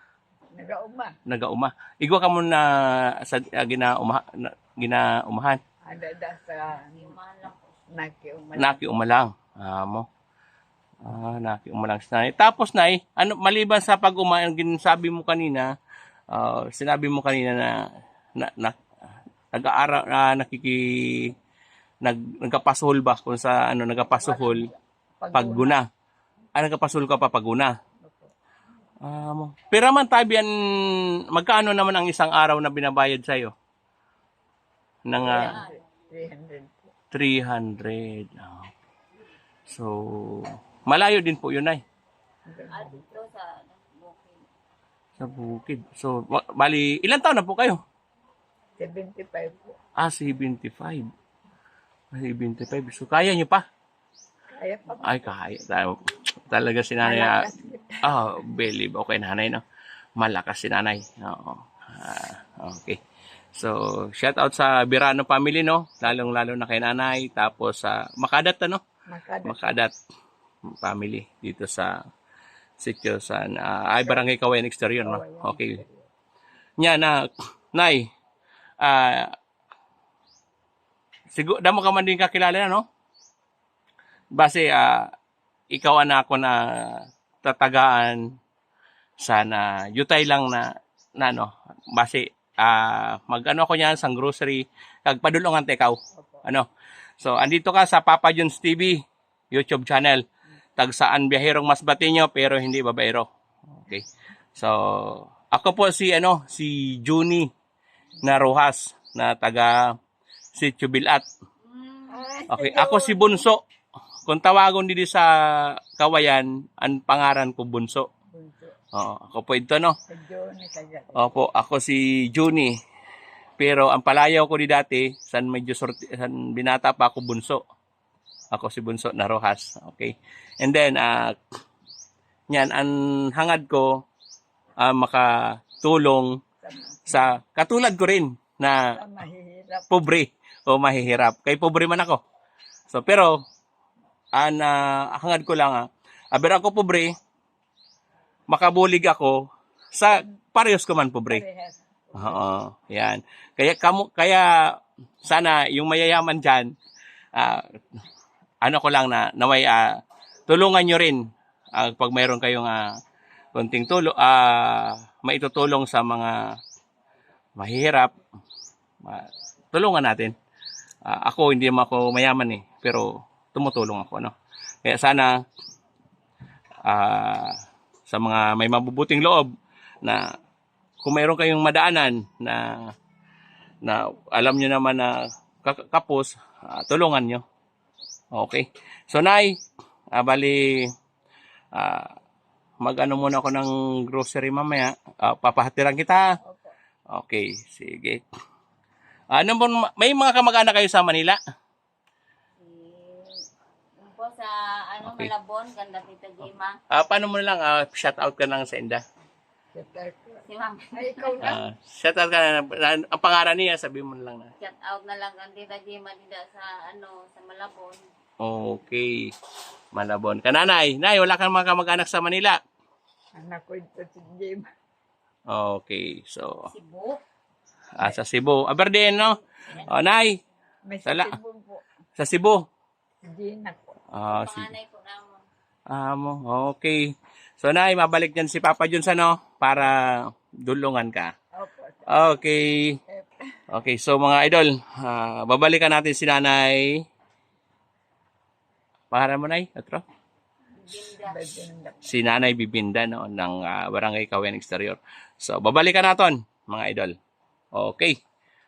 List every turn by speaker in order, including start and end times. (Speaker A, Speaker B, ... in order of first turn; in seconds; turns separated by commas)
Speaker A: 0.5-1.1, Speaker B: 1.2-5.6, Speaker A: 5.8-7.1, Speaker C: 6.8-7.8, Speaker A: 7.9-8.8, Speaker B: 8.6-10.1, Speaker B: 11.0-15.7, Speaker B: 16.3-17.7, Speaker B: 18.4-18.8, Speaker B: 19.5-21.3, Speaker B: 22.0-24.7, Speaker A: 24.2-25.8, Speaker B: 25.3-25.8, Speaker B: 26.6-27.7, Speaker A: 28.0-28.3, Speaker B: 29.0-33.5, Speaker B: 35.1-35.6, Speaker A: 35.2-36.9, Speaker C: 35.3-35.8, Speaker B: 37.1-38.7, Speaker B: 39.7-41.8, Speaker A: 42.5-43.2, Speaker C: 42.7-44.5, Speaker B: 45.2-47.8, Speaker A: 48.8-49.8, Speaker B: 50.0-51.0, Speaker B: 52.1-53.6, Speaker A: 54.5-55.3, Speaker B: 55.0-57.4, Speaker A: 57.0-58.1, Speaker B: 58.0-59.6, Speaker B: 60.2-63.0, Speaker B: 63.5-68.8, Speaker A: 69.1-69.8, Speaker B: 69.4-69.9, Speaker B: 70.7-71.9, Speaker B: 72.8-75.8, Speaker A: 75.0-76.1, Speaker B: 76.8-77.2, Speaker B: 77.7-78.1, Speaker B: 78.8-79.3, Speaker B: 81.3-82.8, Speaker B: 84.3-85.1, Speaker B: 85.7-88.2, Speaker B: 89.2-96.7, Speaker A: 96.2-96.4, Speaker B: 97.2-99.0, Speaker B: 99.5-100.2, Speaker B: 100.8-103.3, Speaker B: 103.9-107.5, Speaker B: 108.2-109.8, Speaker B: 110.5-111.2, Speaker C: 111.6-112.3, Speaker A: 112.1-113.5, Speaker B: 112.5-113.6, Speaker B: 114.2-118.1, Speaker A: 118.3-118.8, Speaker B: 118.9-120.0, Speaker A: 120.1-121.4, Speaker B: 121.1-122.7, Speaker B: 123.6-127.6, Speaker B: 128.5-131.3, Speaker B: 132.5-134.0, Speaker B: 134.8-136.4, Speaker A: 136.6-137.4, Speaker B: 137.1-138.9, Speaker A: 138.8-139.9, Speaker B: 139.9-142.2, Speaker B: 142.9-143.4, Speaker B: 144.3-147.1, Speaker B: 148.5-151.4, Speaker A: 151.3-152.5, Speaker B: 152.1-156.7, Speaker B: 157.3-157.7, Speaker B: 158.6-161.2, Speaker B: 161.7-162.9, Speaker B: 163.5-166.4, Speaker B: 167.6-168.1, Speaker B: 169.0-170.3, Speaker B: 171.0-175.4, Speaker B: 176.8-179.5, Speaker B: 181.0-182.9, Speaker B: 183.8-187.4, Speaker B: 188.3-189.6, Speaker B: 190.1-190.9, Speaker B: 191.7-192.1, Speaker B: 192.8-196.2, Speaker A: 196.4-196.7, Speaker B: 197.1-198.2, Speaker B: 199.3-201.4, Speaker C: 202.6-203.4, Speaker C: 204.0-206.8, Speaker B: 205.0-205.3, Speaker B: 206.9-209.0, Speaker A: 209.7-211.6, Speaker C: 210.4-211.6, Speaker B: 211.4-214.5, Speaker C: 214.6-218.1, Speaker B: 218.4-219.3, Speaker B: 219.9-222.6, Speaker A: 223.3-224.7, Speaker B: 225.5-226.7, Speaker C: 226.7-227.2, Speaker B: 227.9-230.4, Speaker C: 229.7-230.0, Speaker A: 230.8-231.8, Speaker B: 231.0-231.4, Speaker B: 232.2-232.6, Speaker A: 233.2-233.9, Speaker B: 234.1-234.7, Speaker C: 234.3-235.4, Speaker B: 235.9-241.3, Speaker A: 241.5-242.1, Speaker B: 242.1-243.0, Speaker A: 243.1-243.4, Speaker B: 243.7-247.0, Speaker B: 249.1-250.0, Speaker C: 250.8-251.7, Speaker A: 251.2-252.2, Speaker B: 252.0-257.1, Speaker B: 257.7-258.2